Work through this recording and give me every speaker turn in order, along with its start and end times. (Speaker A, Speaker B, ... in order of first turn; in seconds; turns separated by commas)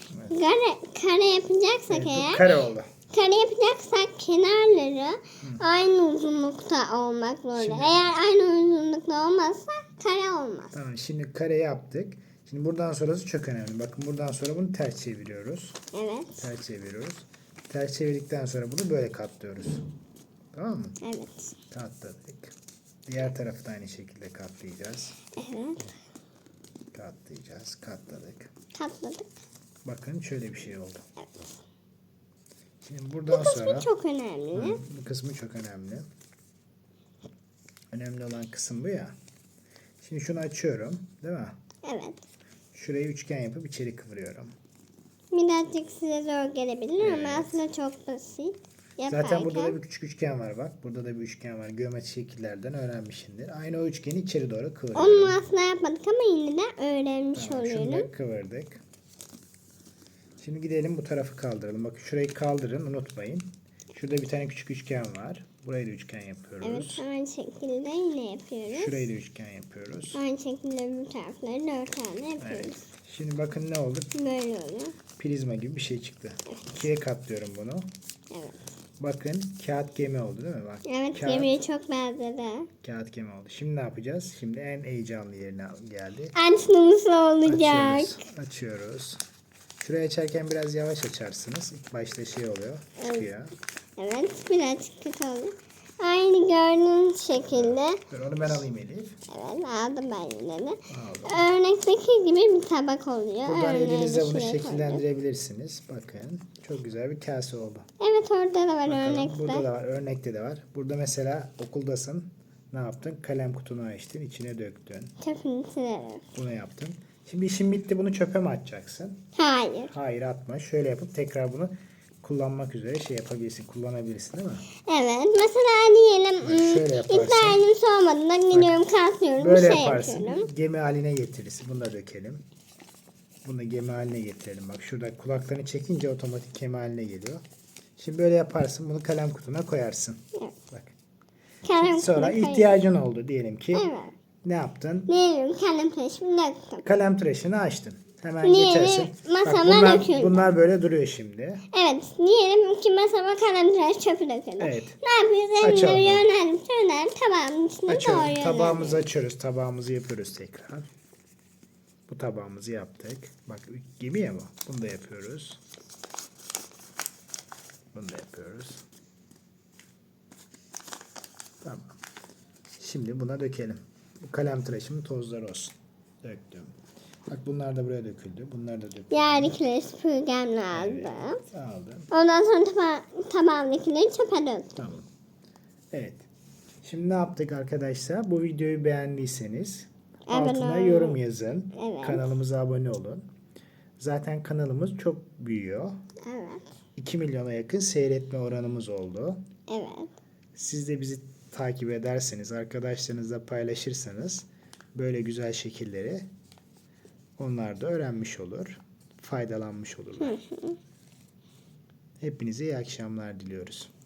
Speaker A: 0.1-0.4, Speaker B: 0.3-2.5, Speaker A: 1.9-2.9, Speaker B: 3.1-10.8, Speaker A: 5.4-5.7, Speaker A: 7.5-8.1, Speaker A: 10.7-15.8, Speaker B: 15.9-16.4, Speaker A: 16.4-19.9, Speaker A: 20.5-21.0, Speaker B: 21.0-21.5, Speaker A: 21.7-22.5, Speaker A: 23.1-25.1, Speaker B: 25.3-25.9, Speaker A: 26.9-28.5, Speaker B: 28.7-29.3, Speaker A: 29.8-31.0, Speaker B: 31.2-31.5, Speaker A: 32.8-33.9, Speaker B: 33.3-34.8, Speaker A: 34.5-36.0, Speaker A: 37.9-39.1, Speaker A: 40.0-41.5, Speaker B: 41.8-42.2, Speaker A: 42.7-44.5, Speaker B: 45.3-49.8, Speaker A: 47.0-47.6, Speaker A: 49.1-55.4, Speaker B: 54.9-58.1, Speaker A: 57.3-58.8, Speaker A: 60.4-67.0, Speaker B: 66.6-69.0, Speaker A: 68.7-70.2, Speaker B: 70.1-72.8, Speaker A: 72.4-74.1, Speaker B: 74.1-75.0, Speaker A: 75.2-77.9, Speaker B: 76.5-76.8, Speaker B: 78.3-78.5, Speaker A: 79.0-81.5, Speaker B: 80.8-82.7, Speaker A: 82.8-86.3, Speaker B: 86.3-88.2, Speaker A: 87.4-89.2, Speaker A: 89.8-93.5, Speaker B: 93.0-93.3, Speaker B: 94.0-98.0, Speaker A: 97.4-99.2, Speaker B: 99.3-105.0, Speaker A: 100.9-101.5, Speaker A: 103.4-107.8, Speaker B: 108.0-109.7, Speaker A: 108.8-115.1, Speaker B: 115.2-116.2, Speaker A: 116.3-119.2, Speaker B: 119.3-119.9, Speaker A: 119.9-124.7, Speaker B: 124.8-130.5, Speaker A: 126.4-127.6, Speaker A: 128.5-128.8, Speaker A: 129.4-132.4, Speaker A: 133.4-137.4, Speaker A: 138.0-140.9, Speaker B: 141.6-142.8, Speaker A: 141.8-143.9, Speaker B: 143.7-144.1, Speaker A: 144.4-145.1, Speaker B: 145.1-146.8, Speaker A: 146.8-151.6, Speaker B: 148.4-150.5, Speaker B: 151.7-159.0, Speaker A: 154.6-155.0, Speaker A: 155.6-156.3, Speaker A: 157.9-160.9, Speaker A: 162.1-165.6, Speaker A: 167.9-168.8, Speaker A: 171.6-171.9, Speaker A: 172.8-176.8, Speaker A: 177.3-179.6, Speaker B: 179.1-181.4, Speaker A: 180.7-182.1, Speaker B: 182.1-184.8, Speaker A: 184.8-185.1, Speaker A: 185.9-186.2, Speaker A: 186.8-193.2, Speaker B: 190.3-191.2, Speaker B: 191.7-192.3, Speaker A: 194.0-196.0, Speaker B: 196.2-196.7, Speaker A: 197.0-199.4, Speaker B: 199.7-200.1, Speaker A: 200.5-206.3, Speaker A: 207.4-210.4, Speaker B: 210.2-210.8, Speaker A: 212.2-213.9